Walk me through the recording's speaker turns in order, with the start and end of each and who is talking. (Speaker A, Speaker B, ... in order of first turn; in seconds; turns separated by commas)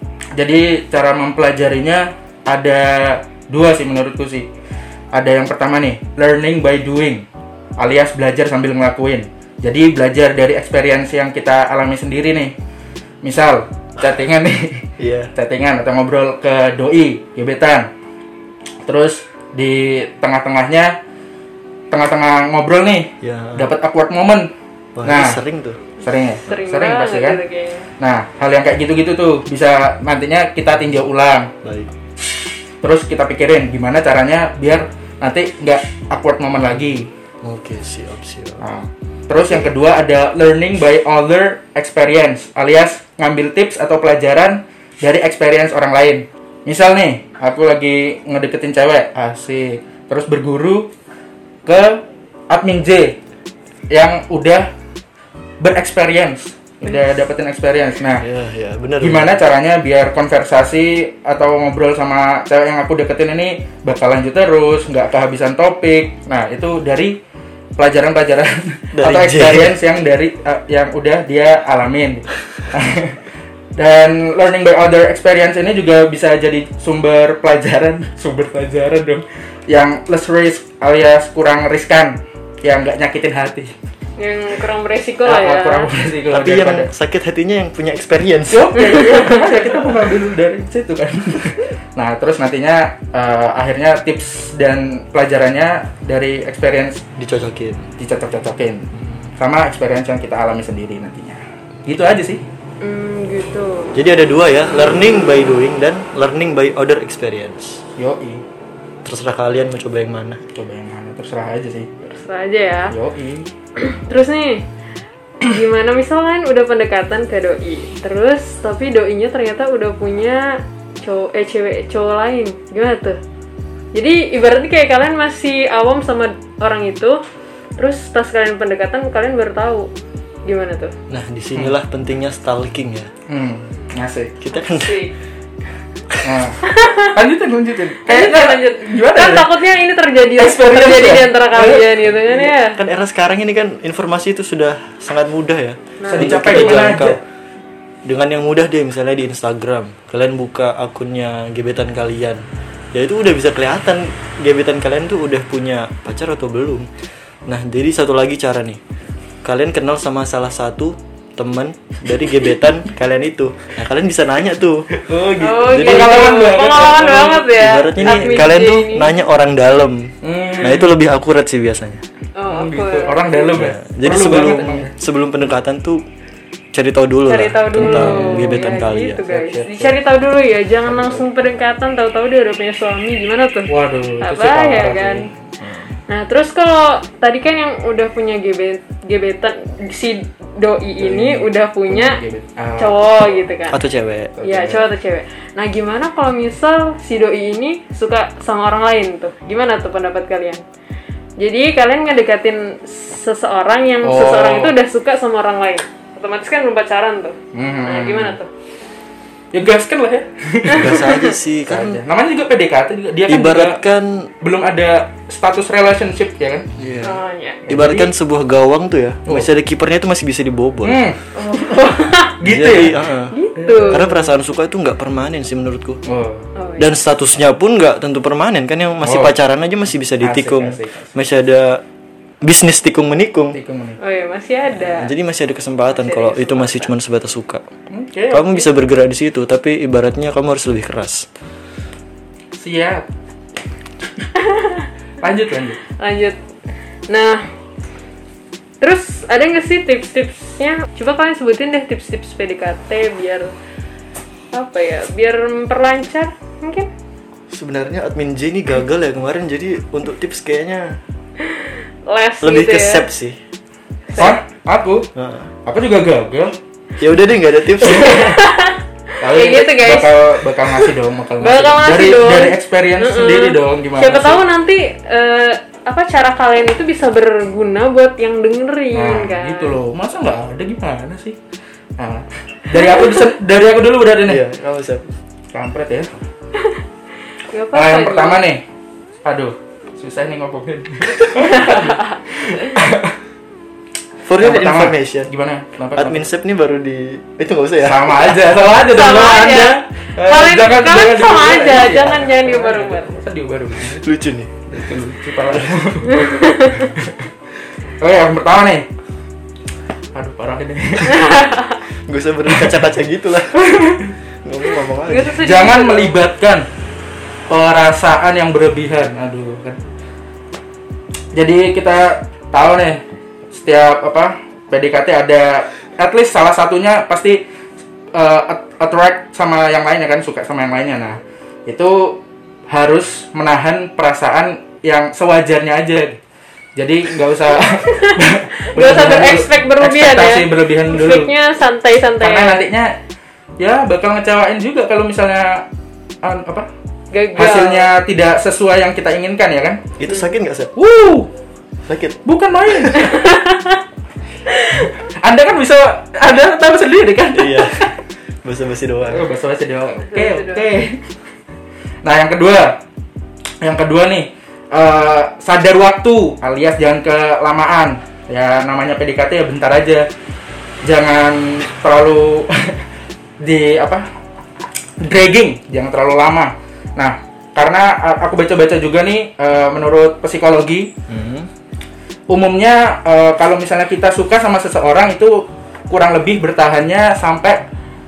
Speaker A: 0.4-4.5, Speaker A: 5.1-7.3, Speaker A: 7.8-12.6, Speaker A: 13.2-17.9, Speaker B: 15.0-15.3, Speaker A: 18.9-21.0, Speaker A: 21.9-24.5, Speaker B: 23.2-23.7, Speaker B: 25.0-25.8, Speaker A: 25.1-25.4, Speaker A: 26.0-27.4, Speaker C: 26.4-27.9, Speaker A: 28.0-31.5, Speaker B: 31.6-31.9, Speaker A: 32.8-37.1, Speaker B: 37.4-38.6, Speaker A: 38.6-50.9, Speaker A: 51.7-53.2, Speaker A: 53.9-54.7, Speaker A: 55.6-58.3, Speaker B: 58.2-59.5, Speaker A: 59.0-67.2, Speaker A: 67.8-73.2, Speaker B: 69.0-69.7, Speaker A: 73.8-83.7, Speaker C: 84.2-85.9, Speaker A: 85.2-86.9, Speaker B: 86.3-88.7, Speaker A: 88.5-97.0, Speaker B: 97.2-97.9, Speaker A: 98.0-102.4, Speaker C: 102.8-104.0, Speaker B: 104.0-107.8, Speaker A: 108.0-108.4, Speaker B: 109.1-110.4, Speaker A: 110.5-111.9, Speaker C: 112.0-113.0, Speaker A: 112.9-113.5, Speaker C: 113.8-114.6, Speaker C: 115.4-123.2, Speaker C: 123.9-127.2, Speaker C: 127.8-129.9, Speaker C: 130.4-130.9, Speaker B: 131.1-133.1, Speaker A: 133.3-134.4, Speaker B: 134.4-135.0, Speaker C: 134.6-135.1, Speaker A: 136.2-139.6, Speaker C: 136.6-137.1, Speaker C: 138.0-142.8, Speaker A: 140.4-142.0, Speaker B: 142.3-147.2, Speaker C: 146.0-147.2, Speaker A: 146.1-147.2, Speaker B: 148.1-152.4, Speaker B: 152.9-156.9, Speaker B: 157.5-158.8, Speaker B: 159.4-164.9, Speaker A: 165.0-168.5, Speaker C: 165.4-169.2, Speaker B: 165.6-166.4, Speaker B: 167.6-172.0, Speaker A: 170.2-170.9, Speaker C: 172.4-173.6, Speaker A: 172.5-174.9, Speaker B: 173.6-176.0, Speaker B: 176.7-179.2, Speaker C: 177.3-185.3, Speaker A: 177.8-180.0, Speaker A: 180.9-181.2, Speaker A: 183.7-185.3, Speaker B: 185.6-185.9, Speaker C: 186.1-192.2, Speaker A: 191.0-192.9, Speaker C: 192.8-193.8, Speaker B: 193.7-194.3, Speaker A: 194.4-194.9, Speaker C: 194.4-200.6, Speaker C: 201.4-208.5, Speaker A: 204.0-204.7, Speaker A: 207.5-208.4, Speaker A: 209.5-213.8, Speaker B: 210.7-212.0, Speaker C: 210.8-211.3, Speaker B: 213.3-214.3, Speaker A: 214.4-216.7, Speaker B: 216.8-217.2, Speaker C: 217.0-217.6, Speaker A: 217.7-218.1, Speaker B: 217.7-221.0, Speaker A: 220.8-221.2, Speaker C: 221.3-222.4, Speaker A: 222.4-223.1, Speaker B: 222.4-223.4, Speaker C: 223.3-224.1, Speaker A: 223.6-224.2, Speaker B: 223.9-226.0, Speaker A: 226.1-226.5, Speaker C: 226.6-226.9, Speaker B: 226.8-231.8, Speaker A: 229.0-229.4, Speaker A: 230.2-231.2, Speaker B: 232.4-233.6, Speaker A: 233.5-234.0, Speaker C: 234.0-235.1, Speaker B: 234.7-237.6, Speaker C: 235.9-236.9, Speaker A: 237.9-238.7, Speaker B: 238.3-241.3, Speaker A: 242.6-243.1, Speaker C: 244.4-244.9, Speaker A: 245.2-245.8, Speaker C: 246.0-246.4, Speaker C: 247.1-247.4, Speaker C: 248.8-253.5, Speaker C: 254.5-256.9, Speaker B: 257.5-261.0, Speaker C: 261.4-263.1, Speaker B: 262.4-263.4, Speaker C: 264.1-264.4, Speaker A: 264.2-265.1, Speaker B: 265.1-265.5, Speaker A: 265.7-266.6, Speaker B: 267.0-268.4, Speaker C: 267.8-279.8, Speaker A: 269.2-274.4, Speaker A: 278.9-281.4, Speaker A: 282.0-284.4, Speaker B: 284.3-285.1, Speaker A: 285.5-286.1, Speaker C: 287.5-288.4, Speaker A: 287.7-288.6, Speaker A: 289.2-293.1, Speaker C: 291.6-292.1, Speaker B: 294.2-295.3, Speaker A: 294.4-296.3, Speaker B: 296.0-298.4, Speaker A: 297.8-304.0, Speaker C: 298.8-303.1, Speaker B: 304.0-304.6, Speaker A: 304.7-307.1, Speaker C: 306.1-306.9, Speaker A: 308.0-308.9, Speaker A: 310.1-311.4, Speaker C: 311.2-311.8, Speaker B: 312.1-313.6, Speaker A: 313.6-314.1, Speaker B: 314.4-315.5, Speaker C: 315.1-316.2, Speaker A: 315.4-316.7, Speaker A: 317.5-319.8, Speaker A: 321.3-323.0, Speaker A: 323.5-327.4, Speaker A: 328.1-336.2, Speaker A: 336.8-341.3, Speaker C: 337.8-342.6, Speaker A: 342.2-343.0, Speaker A: 343.6-345.7, Speaker A: 346.2-346.7, Speaker C: 347.1-347.9, Speaker A: 347.4-349.8, Speaker B: 350.0-350.7, Speaker A: 350.8-351.3, Speaker B: 351.9-352.2, Speaker A: 352.2-353.2, Speaker C: 353.1-353.7, Speaker A: 354.8-357.9, Speaker B: 357.4-357.9, Speaker B: 358.4-359.3, Speaker A: 359.1-361.0, Speaker C: 360.0-360.7, Speaker A: 362.0-362.8, Speaker A: 363.6-370.1, Speaker A: 370.8-372.8, Speaker A: 373.4-374.1, Speaker A: 375.0-380.9, Speaker B: 381.1-381.5, Speaker A: 382.3-387.6